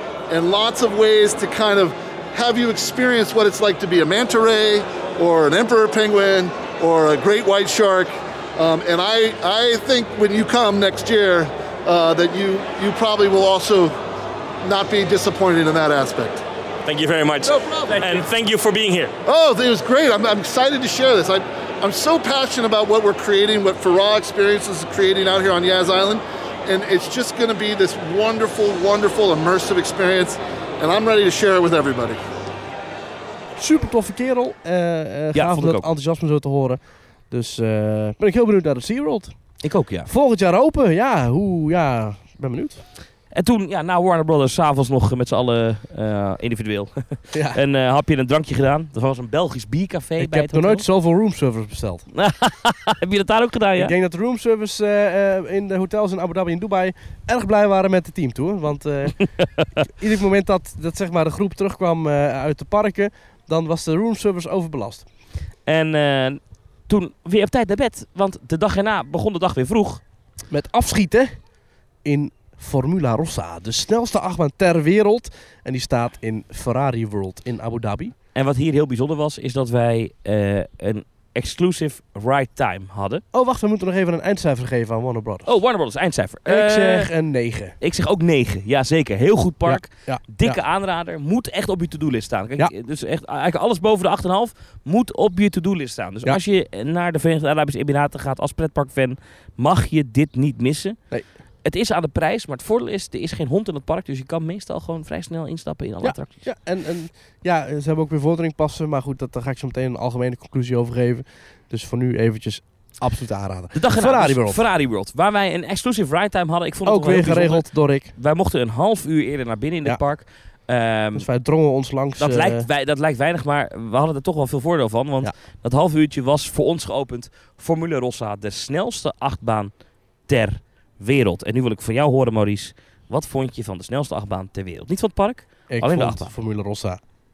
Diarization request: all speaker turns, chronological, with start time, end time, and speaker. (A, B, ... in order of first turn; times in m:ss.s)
0:00.3-0:13.9 A
0:14.6-0:16.4 A
0:16.8-0:19.1 B
0:19.2-0:32.2 A
0:33.6-0:42.8 C
0:35.3-0:35.9 D
0:39.6-0:40.1 D
0:43.3-0:50.8 D
0:47.3-0:47.6 C
0:50.2-0:52.0 C
0:52.1-0:53.9 D
0:53.8-0:59.2 C
0:59.8-1:05.0 C
1:05.6-1:10.0 D
1:10.5-1:11.5 C
1:12.0-1:18.1 C
1:18.3-1:23.2 D
1:23.3-1:25.5 C
1:25.4-1:27.1 D
1:26.4-1:27.7 C
1:27.8-1:41.0 D
1:29.6-1:30.6 C
1:41.6-1:46.5 D
1:46.0-1:54.6 C
1:53.7-2:01.2 D
1:56.8-1:58.1 C
2:01.1-2:02.7 C
2:02.2-2:16.3 D
2:15.7-2:17.0 C